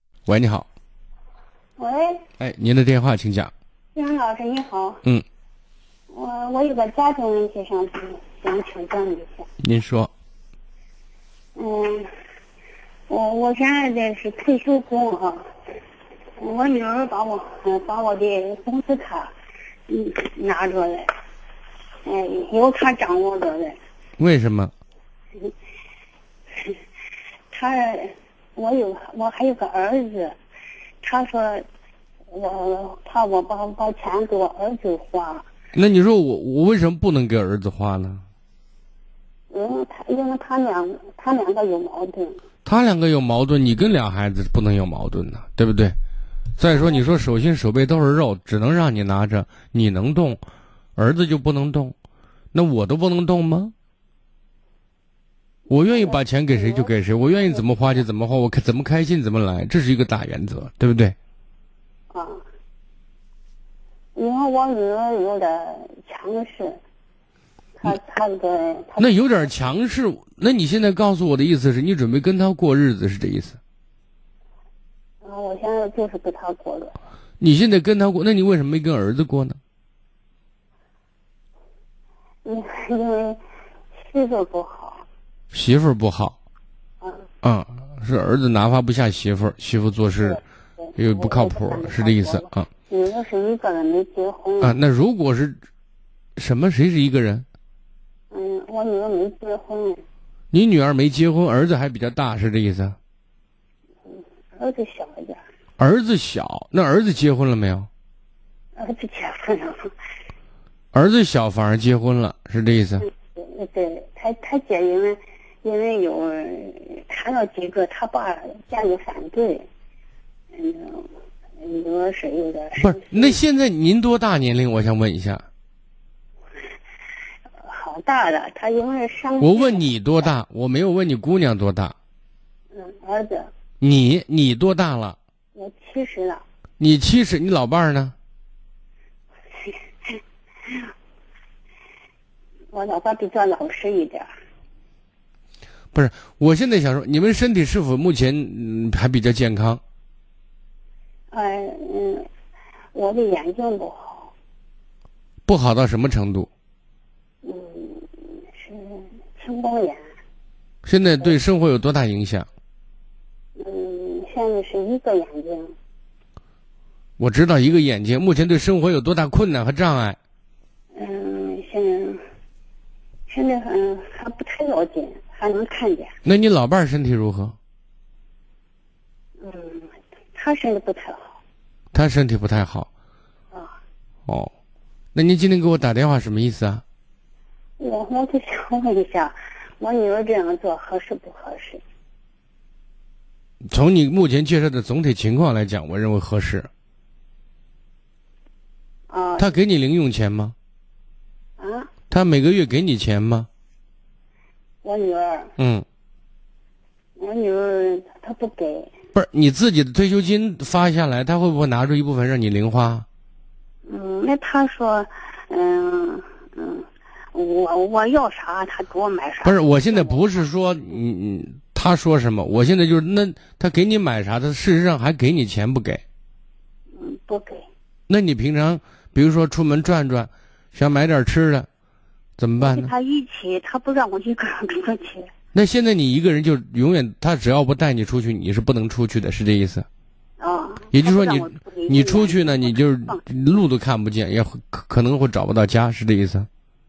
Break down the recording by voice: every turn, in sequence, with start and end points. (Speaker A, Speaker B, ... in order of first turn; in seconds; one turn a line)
Speaker A: 0.3-0.7
Speaker B: 1.8-2.2
Speaker A: 2.4-3.5
Speaker B: 4.0-5.0
Speaker B: 6.1-9.5
Speaker A: 9.6-10.1
Speaker B: 11.6-12.1
Speaker B: 13.1-15.4
Speaker B: 16.4-19.3
Speaker B: 19.9-21.1
Speaker B: 22.1-23.8
Speaker A: 24.2-24.7
Speaker B: 27.5-30.4
Speaker B: 31.0-31.6
Speaker B: 32.3-35.5
Speaker A: 35.7-38.2
Speaker B: 39.5-42.4
Speaker A: 42.6-46.0
Speaker A: 46.6-50.4
Speaker B: 46.7-47.2
Speaker A: 51.0-52.0
Speaker A: 52.5-53.7
Speaker A: 55.7-61.1
Speaker B: 55.7-57.7
Speaker B: 62.1-62.4
Speaker B: 64.2-66.8
Speaker B: 67.8-69.5
Speaker A: 69.0-73.6
Speaker B: 75.2-77.0
Speaker A: 77.4-79.6
Speaker B: 82.4-83.4
Speaker B: 84.0-85.0
Speaker A: 85.5-86.4
Speaker B: 87.0-87.3
Speaker A: 87.4-90.4
Speaker B: 90.2-94.8
Speaker A: 91.0-92.7
Speaker A: 94.6-95.6
Speaker A: 96.4-97.5
Speaker B: 98.3-100.0
Speaker A: 100.5-103.0
Speaker B: 104.1-105.4
Speaker A: 105.8-107.9
Speaker B: 108.8-109.9
Speaker A: 110.9-113.0
Speaker B: 113.0-119.7
Speaker B: 120.5-123.4
Speaker A: 122.8-125.4
Speaker B: 127.6-129.9
Speaker A: 129.4-131.9
Speaker B: 132.7-133.5
Speaker A: 133.8-135.2
Speaker B: 135.6-136.4
Speaker A: 136.8-138.1
Speaker B: 139.6-140.2
Speaker B: 142.7-144.3
Speaker A: 145.9-149.8
Speaker B: 151.3-152.3
Speaker B: 152.9-154.3
Speaker A: 155.5-156.5
Speaker B: 157.4-160.0
Speaker A: 160.8-162.5
Speaker B: 163.6-165.7
Speaker A: 167.2-170.2
Speaker B: 170.9-172.2
Speaker B: 173.3-176.1
Speaker A: 176.2-177.6
Speaker B: 179.4-181.4
Speaker A: 181.9-182.9
Speaker B: 183.5-183.8
Speaker A: 185.2-186.8
Speaker B: 187.8-191.8
Speaker A: 193.7-196.7
Speaker B: 199.1-199.6
Speaker A: 199.4-200.6
Speaker B: 201.6-201.9
Speaker A: 202.1-203.5
Speaker B: 204.8-205.5
Speaker A: 205.6-205.8
Speaker B: 207.2-208.9
Speaker A: 209.1-213.1
Speaker B: 213.9-220.2
Speaker A: 219.4-226.0
Speaker B: 226.9-227.7
Speaker A: 228.1-231.7
Speaker A: 232.4-232.9
Speaker B: 232.6-235.3
Speaker A: 235.5-239.9
Speaker B: 240.4-243.2
Speaker A: 240.9-246.5